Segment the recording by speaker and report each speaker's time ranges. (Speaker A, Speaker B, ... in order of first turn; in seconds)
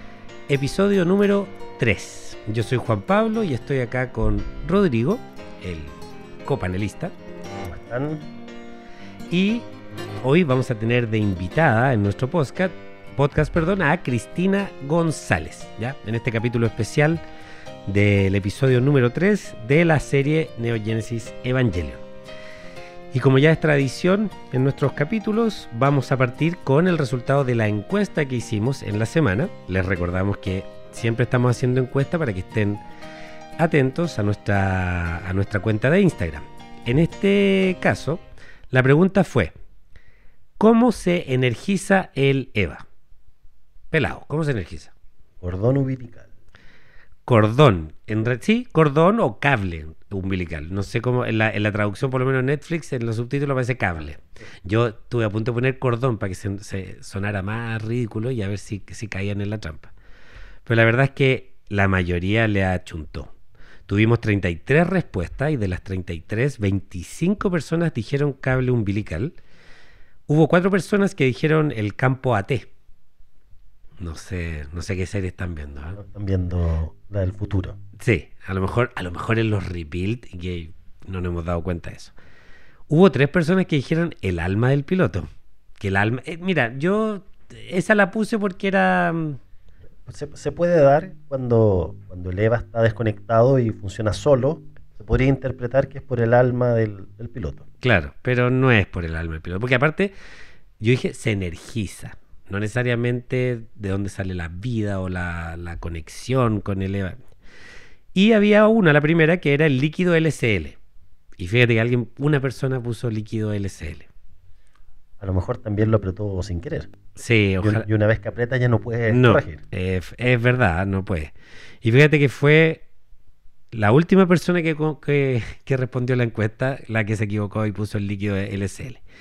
Speaker A: 0.5-7.1, 9.3-9.7, 10.2-17.2, 17.9-22.0, 23.1-32.8, 33.6-39.5, 40.6-42.9, 43.9-44.9, 47.3-59.9, 60.7-63.3, 63.9-69.4, 70.3-72.7, 74.0-76.0, 78.0-82.1, 82.9-85.3, 85.8-89.4, 97.8-100.1, 100.8-107.2, 108.1-110.8, 111.4-114.1, 117.2-117.8, 119.1-122.8, 123.7-129.0
Speaker B: 7.7-8.3, 45.4-46.3, 76.0-77.8, 90.1-97.6, 115.2-116.9, 117.6-119.6